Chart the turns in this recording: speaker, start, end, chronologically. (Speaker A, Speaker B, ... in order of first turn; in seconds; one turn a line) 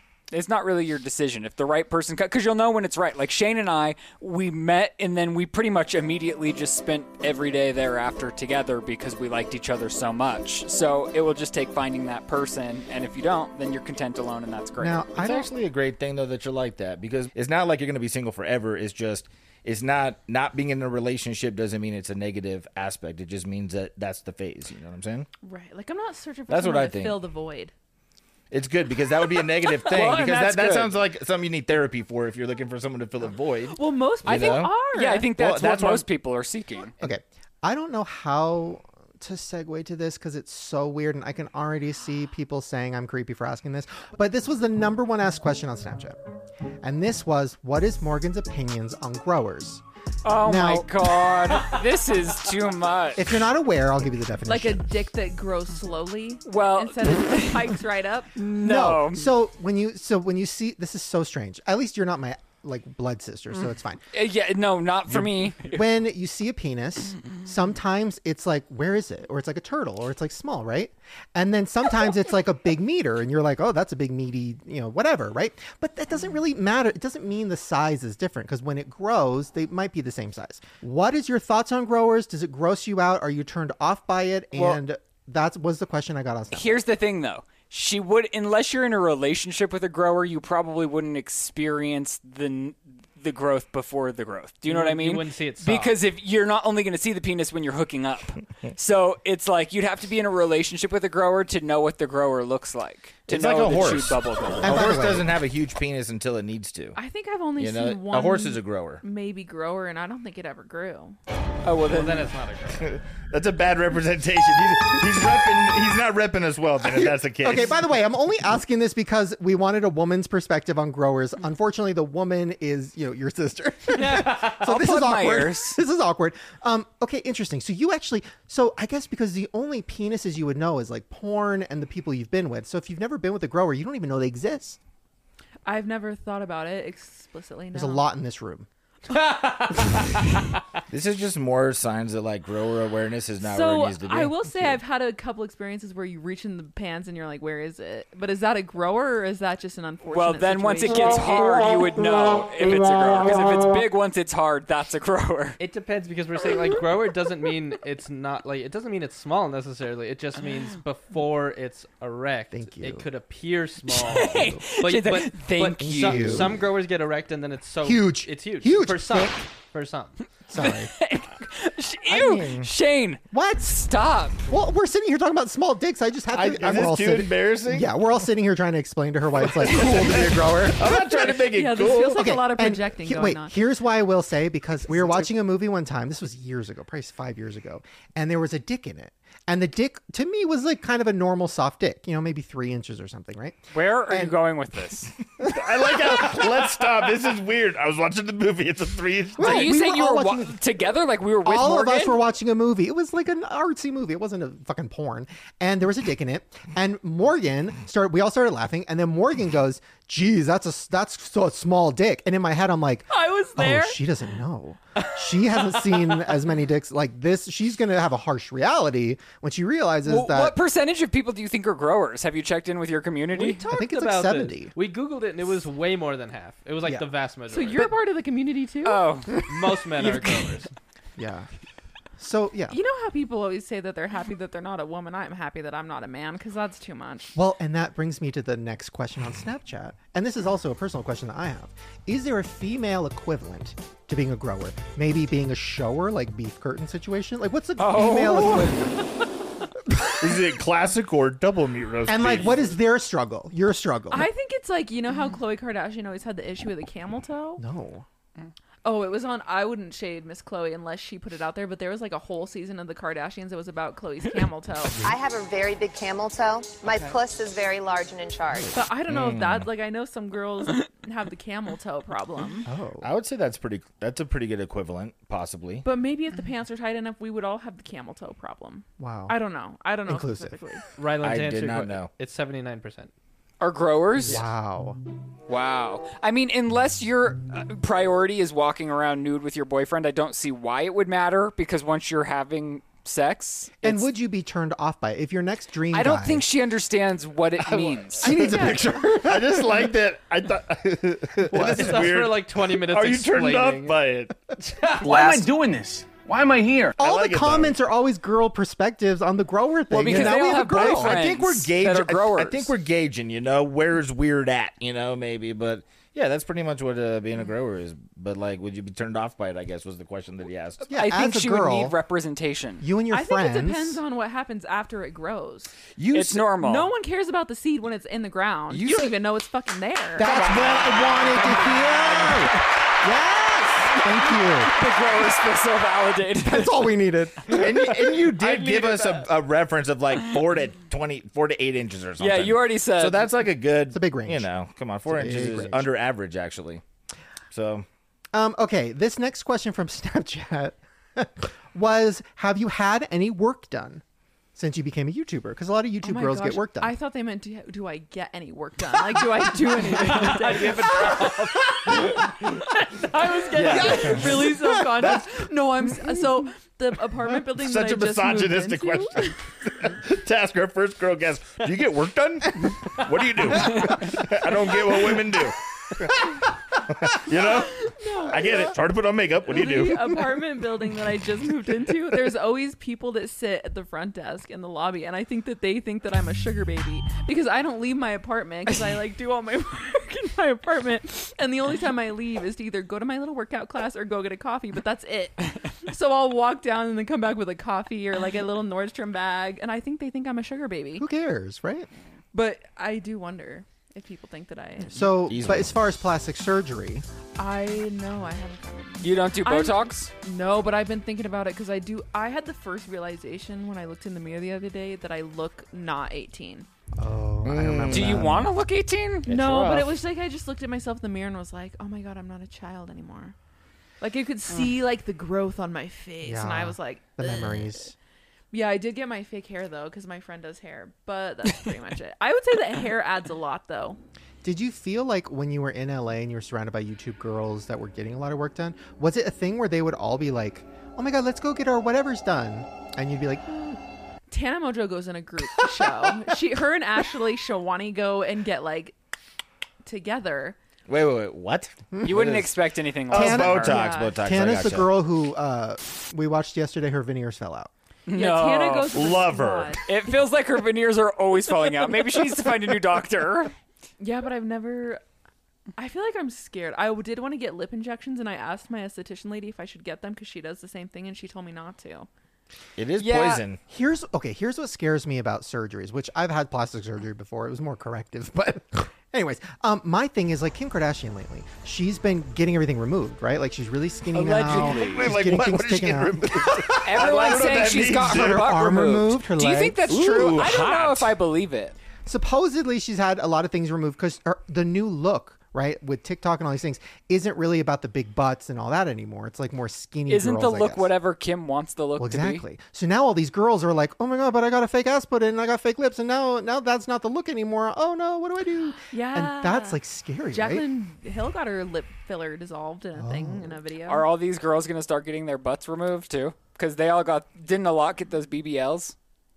Speaker A: 0.3-15.0
Speaker B: 14.8-15.5
Speaker C: 15.2-25.3
Speaker D: 25.4-27.7
Speaker C: 26.5-27.2
Speaker C: 28.5-34.7
Speaker A: 29.7-30.9
Speaker D: 33.7-35.3
Speaker A: 34.3-36.9
Speaker C: 35.3-36.0
Speaker B: 37.0-46.2
Speaker B: 46.8-49.8
Speaker A: 50.2-53.3
Speaker B: 50.4-50.9
Speaker B: 53.1-54.9
Speaker D: 54.5-58.3
Speaker A: 56.5-57.8
Speaker A: 58.4-59.3
Speaker B: 58.5-64.0
Speaker A: 64.1-65.8
Speaker B: 65.6-86.8
Speaker A: 86.5-105.0
Speaker E: 94.7-95.9
Speaker C: 103.3-107.0
Speaker B: 104.6-105.3
Speaker D: 107.0-111.2
Speaker C: 107.6-109.0
Speaker A: 111.6-112.3
Speaker E: 111.8-112.9
Speaker C: 112.8-117.8
Speaker B: 116.8-134.8
Speaker A: 124.0-125.8
Speaker D: 135.6-138.0
Speaker B: 137.7-138.7
Speaker E: 139.1-140.6
Speaker C: 140.9-144.8
Speaker D: 143.4-151.4
Speaker A: 150.1-155.6
Speaker E: 155.6-170.2
Speaker B: 162.5-163.1
Speaker A: 163.9-166.5
Speaker B: 164.2-164.7
Speaker B: 165.8-166.6
Speaker B: 167.8-169.3
Speaker B: 170.5-170.9
Speaker A: 170.5-174.4
Speaker B: 172.1-172.7
Speaker B: 173.3-173.8
Speaker B: 174.5-181.0
Speaker C: 176.3-177.9
Speaker C: 179.4-182.3
Speaker D: 181.3-183.5
Speaker B: 182.1-194.4
Speaker A: 193.7-195.1
Speaker C: 195.4-199.8
Speaker B: 195.4-196.3
Speaker B: 199.4-200.6
Speaker A: 199.4-202.2
Speaker B: 201.4-220.6
Speaker D: 213.1-214.0
Speaker A: 220.1-223.6
Speaker E: 223.3-228.0
Speaker B: 223.7-224.7
Speaker D: 227.5-229.1
Speaker A: 228.8-230.5
Speaker E: 229.4-230.7
Speaker B: 231.2-231.5
Speaker B: 232.2-232.8
Speaker D: 232.7-237.3
Speaker B: 237.3-248.9
Speaker A: 247.8-248.9
Speaker C: 250.2-252.7
Speaker B: 252.1-254.3
Speaker D: 254.1-257.6
Speaker B: 257.6-258.1
Speaker D: 258.8-265.0
Speaker B: 264.9-265.2
Speaker F: 265.0-268.7
Speaker B: 268.5-268.9
Speaker D: 268.7-272.7
Speaker C: 269.1-269.7
Speaker B: 272.6-273.1
Speaker C: 273.0-275.9
Speaker D: 275.8-280.8
Speaker B: 279.0-279.4
Speaker B: 280.1-280.5
Speaker E: 281.0-283.1
Speaker C: 281.2-282.1
Speaker A: 283.6-284.4
Speaker B: 284.2-285.0
Speaker A: 285.5-294.1
Speaker B: 293.8-296.5
Speaker A: 295.9-298.3
Speaker C: 297.8-304.4
Speaker B: 298.2-299.9
Speaker D: 298.2-298.8
Speaker B: 301.4-302.1
Speaker E: 301.5-304.0
Speaker E: 304.6-305.4
Speaker G: 304.9-306.9
Speaker C: 307.0-307.8
Speaker B: 307.0-311.3
Speaker A: 309.9-312.7
Speaker C: 310.0-320.8
Speaker B: 320.9-321.9
Speaker A: 320.9-322.8
Speaker B: 322.8-324.0
Speaker D: 323.1-325.8
Speaker C: 326.0-326.5
Speaker A: 326.1-326.9
Speaker D: 326.6-330.3
Speaker C: 328.7-329.1
Speaker B: 330.1-334.7
Speaker A: 330.2-332.5
Speaker A: 334.4-336.9
Speaker B: 336.4-338.4
Speaker C: 337.5-346.8
Speaker A: 338.4-339.2
Speaker A: 342.2-343.3
Speaker B: 343.9-344.5
Speaker B: 345.1-345.9
Speaker C: 347.5-347.9
Speaker B: 348.3-354.0
Speaker B: 354.5-356.9
Speaker D: 356.0-369.4
Speaker E: 359.9-364.1
Speaker C: 363.5-365.2
Speaker C: 367.4-380.4
Speaker D: 377.8-378.7
Speaker D: 379.5-401.1
Speaker B: 401.0-401.9
Speaker D: 402.3-405.2
Speaker B: 404.9-407.0
Speaker C: 405.2-405.8
Speaker D: 407.4-416.7
Speaker A: 409.0-410.1
Speaker B: 417.0-418.5
Speaker C: 417.4-418.3
Speaker A: 417.9-419.3
Speaker C: 419.2-420.0
Speaker D: 419.3-423.3
Speaker D: 424.0-427.8
Speaker B: 426.2-427.9
Speaker D: 428.5-434.0
Speaker B: 434.4-443.8
Speaker D: 444.3-448.9
Speaker D: 449.8-450.6
Speaker C: 450.9-452.5
Speaker B: 451.9-452.4
Speaker A: 452.0-453.8
Speaker C: 453.1-454.9
Speaker B: 453.1-457.7
Speaker D: 453.6-454.2
Speaker A: 458.1-458.9
Speaker D: 458.1-459.8
Speaker C: 458.9-459.8
Speaker A: 459.9-463.5
Speaker D: 464.0-465.0
Speaker D: 465.8-472.1
Speaker C: 472.8-473.6
Speaker A: 473.0-473.4
Speaker B: 473.7-489.8
Speaker A: 484.1-485.1
Speaker C: 484.4-488.4
Speaker A: 486.8-491.8
Speaker C: 489.9-491.1
Speaker B: 492.1-500.9
Speaker A: 500.1-502.4
Speaker B: 502.0-510.7
Speaker D: 508.9-509.8
Speaker D: 510.3-514.0
Speaker B: 512.9-513.6
Speaker A: 513.9-518.9